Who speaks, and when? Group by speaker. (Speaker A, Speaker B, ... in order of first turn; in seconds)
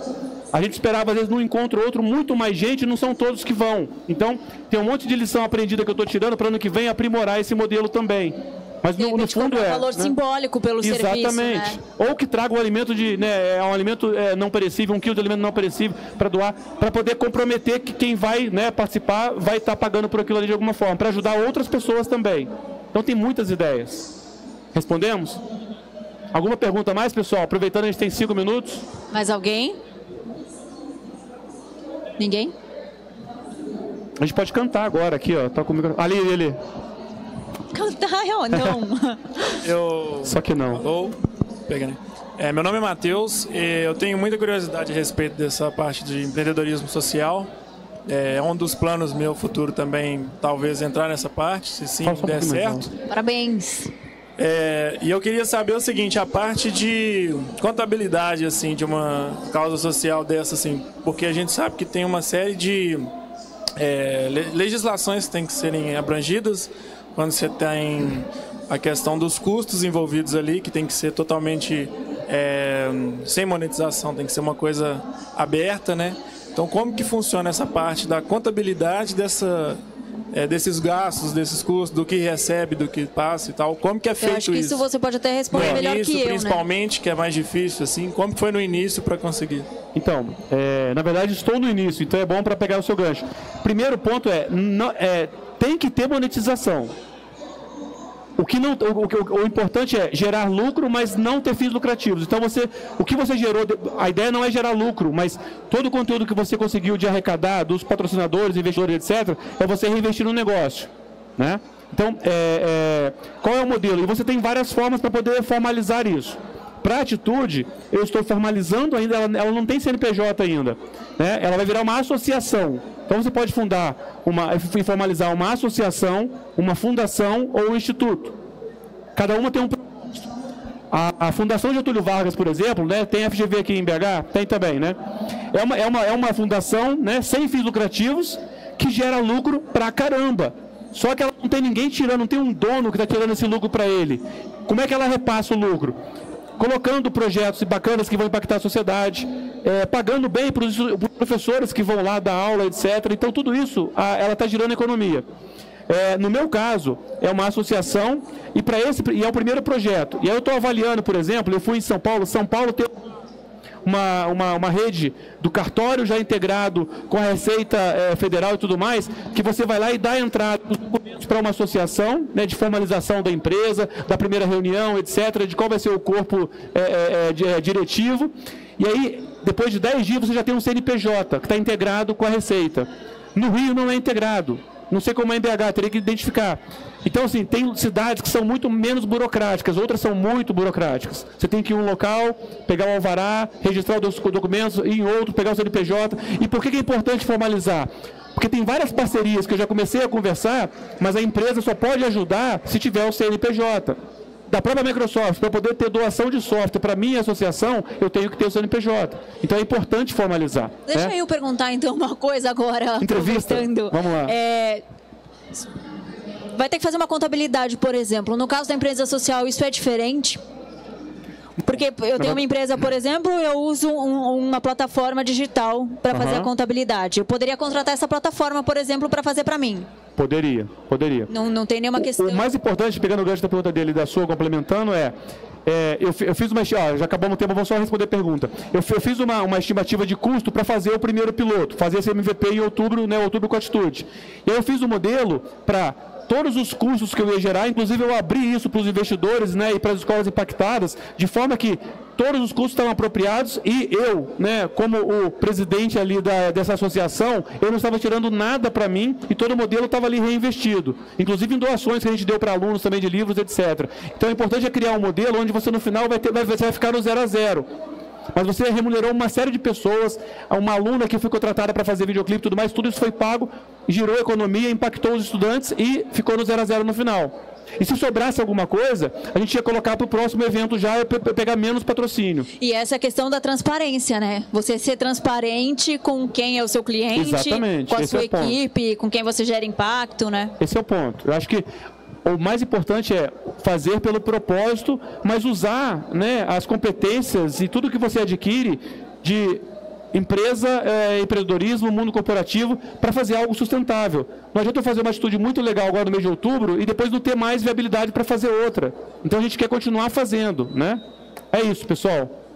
Speaker A: 0.5-10.1, 10.8-24.1, 24.7-25.4, 26.3-28.8, 34.2-36.6, 40.2-40.8, 52.0-52.9, 85.5-85.8, 89.9-96.9, 98.4-128.3, 129.2-130.2, 130.9-135.0, 135.5-145.9, 146.6-155.2, 155.9-163.0, 163.8-204.0, 204.5-211.1, 213.0-214.3, 226.1-226.5, 230.2-231.3, 232.0-267.6, 268.3-282.5, 287.1-288.6, 290.6-291.6, 292.2-312.3
Speaker B: 9.0-11.8, 29.1-29.8, 32.2-32.5, 37.7-39.6, 53.1-53.9, 84.2-86.6, 210.9-214.8, 216.5-220.4, 221.6-229.9, 231.3-232.4, 282.6-290.5
Speaker C: 39.6-41.1, 41.7-47.5, 48.1-52.9, 54.4-63.1, 63.8-79.8, 80.3-84.8, 85.5-89.7